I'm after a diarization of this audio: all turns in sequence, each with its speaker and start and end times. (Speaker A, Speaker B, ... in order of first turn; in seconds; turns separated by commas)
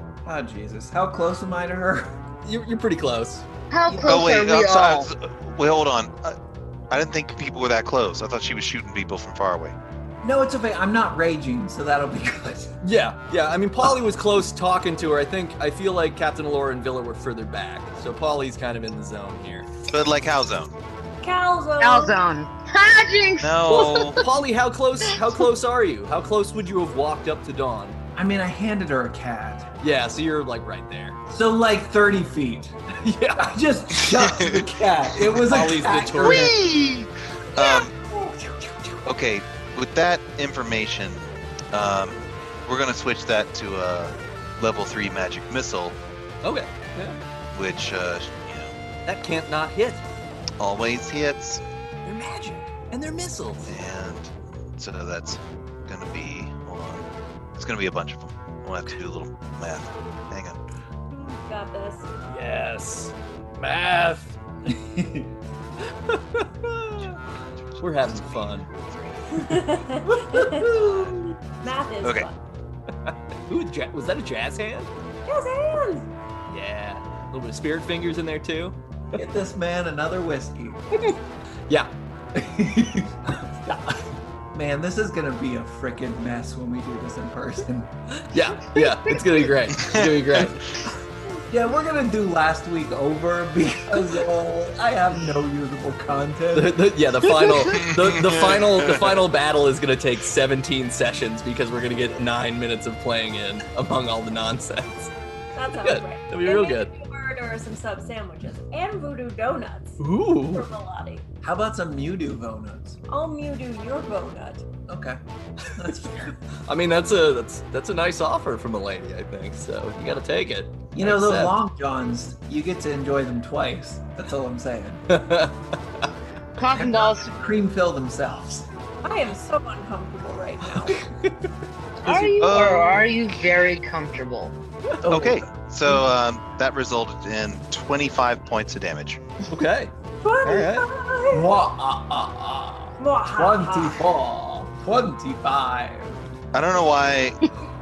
Speaker A: 0.2-2.1, Speaker B: 2.4-3.5, Speaker C: 3.7-5.1, Speaker A: 3.9-4.2, Speaker D: 4.1-6.4, Speaker D: 6.9-9.8, Speaker A: 10.2-12.7, Speaker B: 12.8-19.7, Speaker D: 19.9-20.7, Speaker E: 21.2-22.1, Speaker C: 21.8-24.2, Speaker D: 23.4-24.2, Speaker B: 23.7-28.0, Speaker A: 28.1-29.7, Speaker B: 29.8-31.2, Speaker A: 31.3-32.8, Speaker B: 33.0-33.5, Speaker A: 33.4-36.5, Speaker D: 34.0-35.3, Speaker B: 35.3-36.5, Speaker D: 36.1-37.9, Speaker B: 38.4-39.0, Speaker D: 39.0-46.0, Speaker B: 46.4-47.2, Speaker D: 47.5-48.7, Speaker B: 49.0-50.0, Speaker D: 50.6-51.6, Speaker B: 52.0-53.8, Speaker D: 53.7-60.6, Speaker E: 61.1-62.1, Speaker B: 62.2-64.3, Speaker A: 64.7-65.3, Speaker B: 65.8-67.1, Speaker D: 67.0-69.2, Speaker B: 67.8-68.7, Speaker E: 69.1-70.9, Speaker A: 70.0-71.2, Speaker E: 71.6-72.4, Speaker B: 73.0-74.9, Speaker E: 75.3-76.1, Speaker B: 76.5-79.2, Speaker A: 79.1-80.8, Speaker A: 82.3-83.8, Speaker A: 84.5-87.9, Speaker B: 88.1-90.6, Speaker D: 89.8-90.7, Speaker A: 91.5-97.7, Speaker B: 96.5-105.1, Speaker D: 97.7-99.2, Speaker E: 105.5-111.2, Speaker B: 105.8-106.9, Speaker B: 110.0-110.7, Speaker A: 111.4-113.0, Speaker E: 113.1-114.6, Speaker A: 114.9-115.2, Speaker B: 115.6-121.5, Speaker A: 115.7-116.3, Speaker A: 120.9-125.0, Speaker B: 125.1-126.1, Speaker C: 126.5-127.3, Speaker A: 126.7-128.7, Speaker E: 129.0-131.0, Speaker B: 131.2-131.5, Speaker A: 132.0-132.3, Speaker C: 132.0-134.5, Speaker D: 132.4-133.1, Speaker A: 135.0-136.0, Speaker D: 135.1-139.2, Speaker B: 139.5-139.9, Speaker E: 140.2-141.5, Speaker B: 140.4-140.9, Speaker A: 141.3-146.2, Speaker E: 143.0-144.1, Speaker D: 146.5-147.4